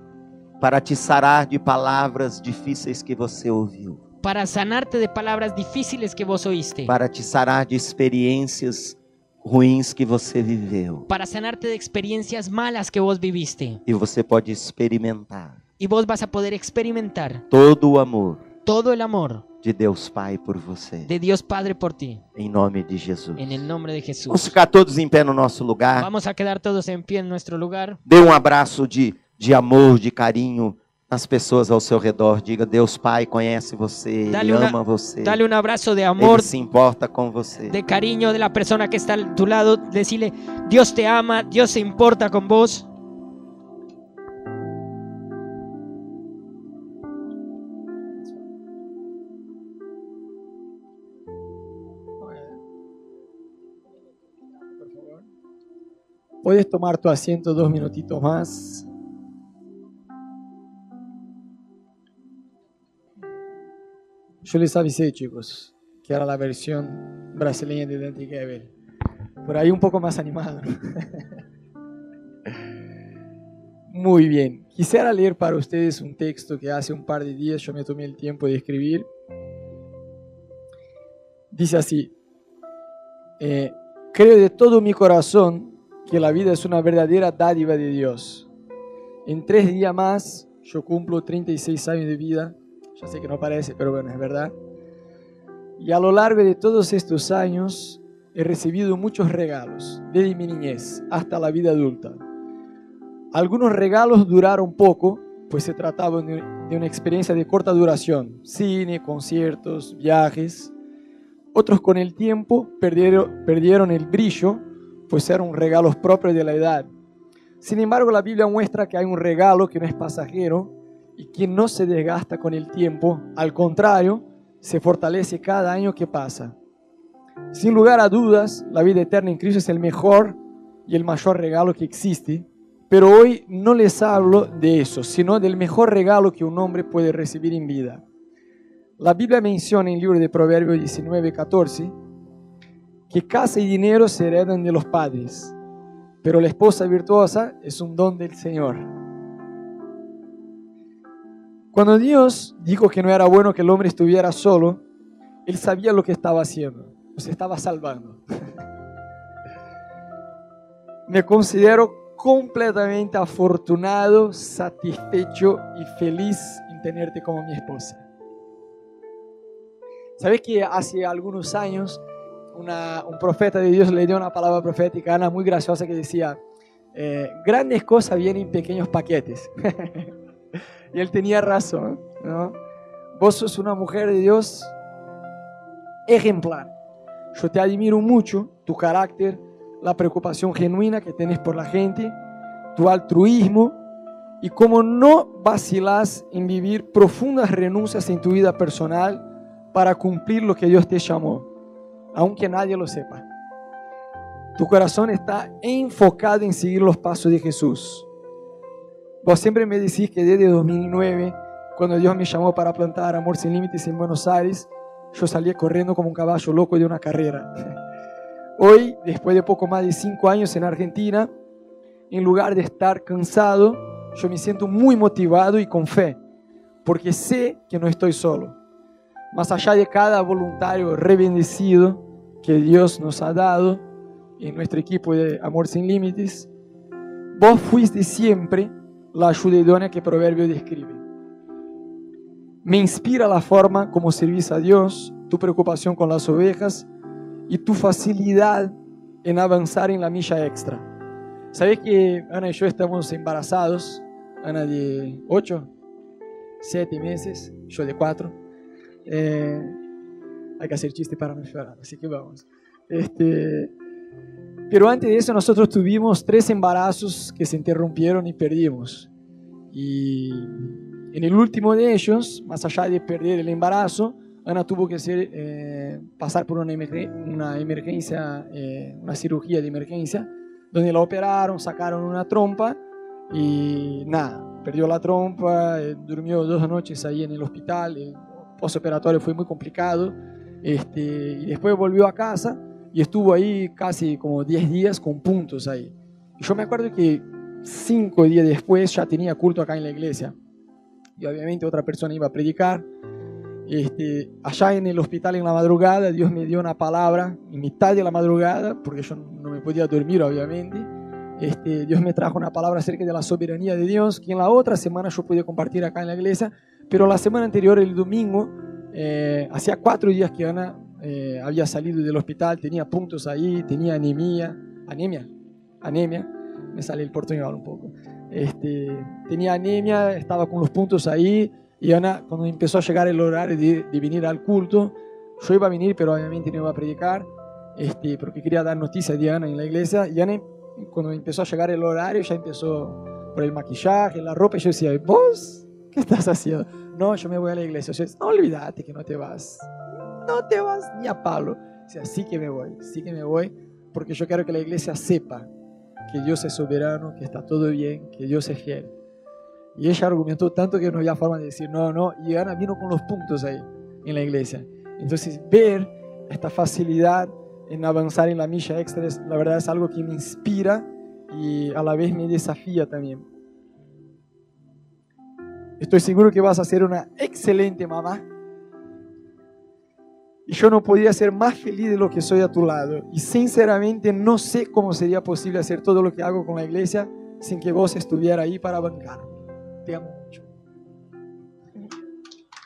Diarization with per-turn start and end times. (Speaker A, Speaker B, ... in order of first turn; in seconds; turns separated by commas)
Speaker A: 0.6-4.0, Speaker B: 4.2-6.9, Speaker A: 6.8-11.1, Speaker B: 11.1-13.8, Speaker A: 13.8-15.6, Speaker B: 15.8-17.4, Speaker A: 17.5-18.4, Speaker B: 18.6-19.4, Speaker A: 19.6-21.1, Speaker B: 21.1-22.2, Speaker A: 22.4-23.6, Speaker B: 23.4-24.5, Speaker A: 24.3-26.1, Speaker B: 25.9-28.0, Speaker A: 28.1-35.4, Speaker B: 34.3-36.5, Speaker A: 36.2-37.8, Speaker B: 37.7-42.9, Speaker C: 52.2-52.6, Speaker C: 54.5-55.3, Speaker C: 56.4-58.9, Speaker C: 64.4-68.7, Speaker C: 69.4-71.2, Speaker C: 73.9-79.1, Speaker C: 81.5-82.1, Speaker C: 83.4-88.5, Speaker C: 89.2-94.5, Speaker C: 95.8-102.2, Speaker C: 103.3-110.7, Speaker C: 111.5-116.9, Speaker C: 117.6-126.5, Speaker C: 127.5-138.0, Speaker C: 139.0-141.9, Speaker C: 143.1-145.5, Speaker C: 146.2-148.9, Speaker C: 151.7-154.8, Speaker C: 155.4-158.2, Speaker C: 161.1-168.0, Speaker C: 170.2-172.0, Speaker C: 172.5-176.4, Speaker C: 176.9-180.1, Speaker C: 180.9-182.6, Speaker C: 183.1-184.7, Speaker C: 186.1-186.7, Speaker C: 187.3-192.2, Speaker C: 192.7-193.8, Speaker C: 194.4-201.5, Speaker C: 202.1-203.2, Speaker C: 204.6-208.1, Speaker C: 209.2-217.5, Speaker C: 218.6-221.3, Speaker C: 222.1-226.2, Speaker C: 226.8-228.6, Speaker C: 229.3-233.8, Speaker C: 234.4-236.5, Speaker C: 237.3-241.0, Speaker C: 242.6-246.9, Speaker C: 247.5-250.8, Speaker C: 251.5-255.7, Speaker C: 256.6-258.4, Speaker C: 259.1-259.8, Speaker C: 260.6-263.7, Speaker C: 264.7-269.1, Speaker C: 269.7-282.8, Speaker C: 283.3-300.3, Speaker C: 301.2-302.9, Speaker C: 303.6-325.3, Speaker C: 325.8-349.7, Speaker C: 350.2-355.5, Speaker C: 356.1-358.9, Speaker C: 359.7-373.2, Speaker C: 375.8-378.2, Speaker C: 380.5-390.5